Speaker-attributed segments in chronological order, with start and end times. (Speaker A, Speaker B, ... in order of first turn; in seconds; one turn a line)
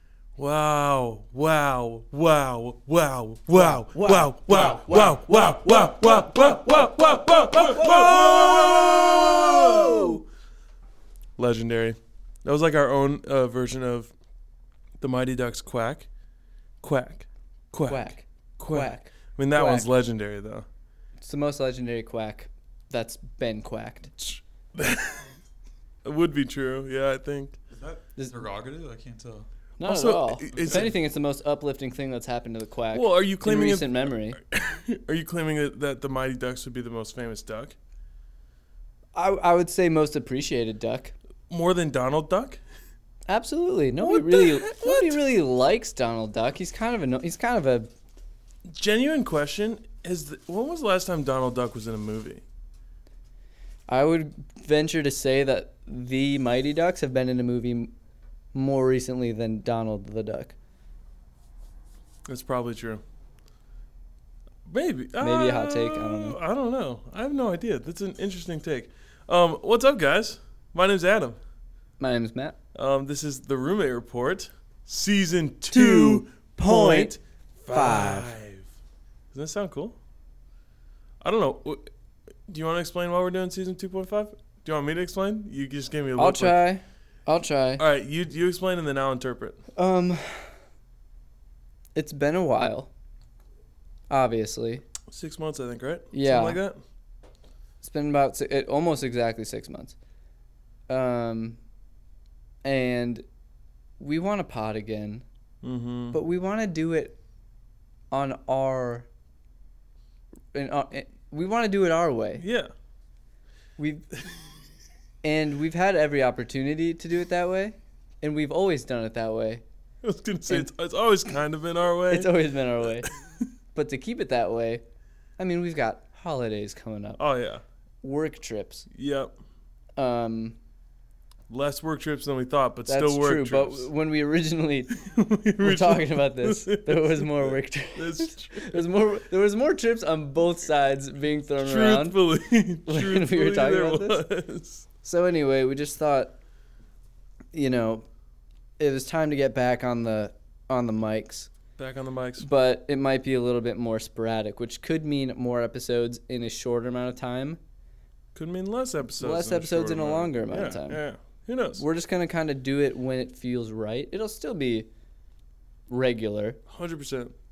Speaker A: 0.4-10.2
Speaker B: 3.5-10.2
Speaker C: 4.5-5.4
Speaker C: 7.5-8.2
Speaker A: 11.4-14.1
Speaker A: 15.0-16.1
Speaker A: 16.8-20.7
Speaker B: 17.9-19.9
Speaker B: 21.2-24.1
Speaker A: 24.2-25.3
Speaker A: 26.0-27.6
Speaker C: 27.7-29.5
Speaker B: 29.8-34.4
Speaker A: 29.8-30.9
Speaker C: 30.5-30.9
Speaker A: 32.9-37.8
Speaker B: 39.1-41.1
Speaker A: 41.5-42.6
Speaker B: 43.3-47.9
Speaker A: 44.1-45.1
Speaker A: 48.6-52.4
Speaker B: 53.9-57.9
Speaker B: 58.5-60.5
Speaker A: 62.3-63.0
Speaker A: 64.7-71.4
Speaker B: 65.2-66.4
Speaker B: 72.0-72.6
Speaker A: 72.7-78.7
Speaker B: 75.7-77.2
Speaker B: 77.7-78.3
Speaker A: 79.3-80.0
Speaker A: 81.2-81.9
Speaker A: 82.5-86.6
Speaker B: 86.2-87.8
Speaker A: 87.8-89.6
Speaker B: 89.8-90.5
Speaker B: 92.0-92.9
Speaker B: 94.1-94.8
Speaker A: 95.1-96.8
Speaker B: 96.1-96.6
Speaker B: 97.8-100.0
Speaker B: 100.9-101.6
Speaker B: 102.6-103.2
Speaker B: 104.0-105.2
Speaker A: 105.6-106.2
Speaker B: 106.1-107.2
Speaker B: 108.1-109.1
Speaker B: 110.5-112.4
Speaker A: 112.4-112.7
Speaker B: 113.8-114.1
Speaker B: 115.2-119.6
Speaker A: 120.0-122.3
Speaker B: 122.1-123.1
Speaker B: 123.7-124.8
Speaker B: 125.4-127.2
Speaker A: 127.2-127.6
Speaker B: 128.0-128.9
Speaker A: 128.9-129.3
Speaker B: 130.0-130.6
Speaker A: 131.5-133.9
Speaker B: 132.8-135.0
Speaker A: 135.0-138.9
Speaker B: 135.6-142.2
Speaker A: 141.6-144.8
Speaker B: 142.9-144.2
Speaker B: 145.0-146.3
Speaker B: 147.5-148.0
Speaker B: 148.8-151.5
Speaker A: 151.8-152.5
Speaker B: 152.4-157.6
Speaker A: 158.3-161.8
Speaker B: 159.2-161.0
Speaker B: 161.8-164.9
Speaker B: 165.9-166.6
Speaker A: 166.7-167.3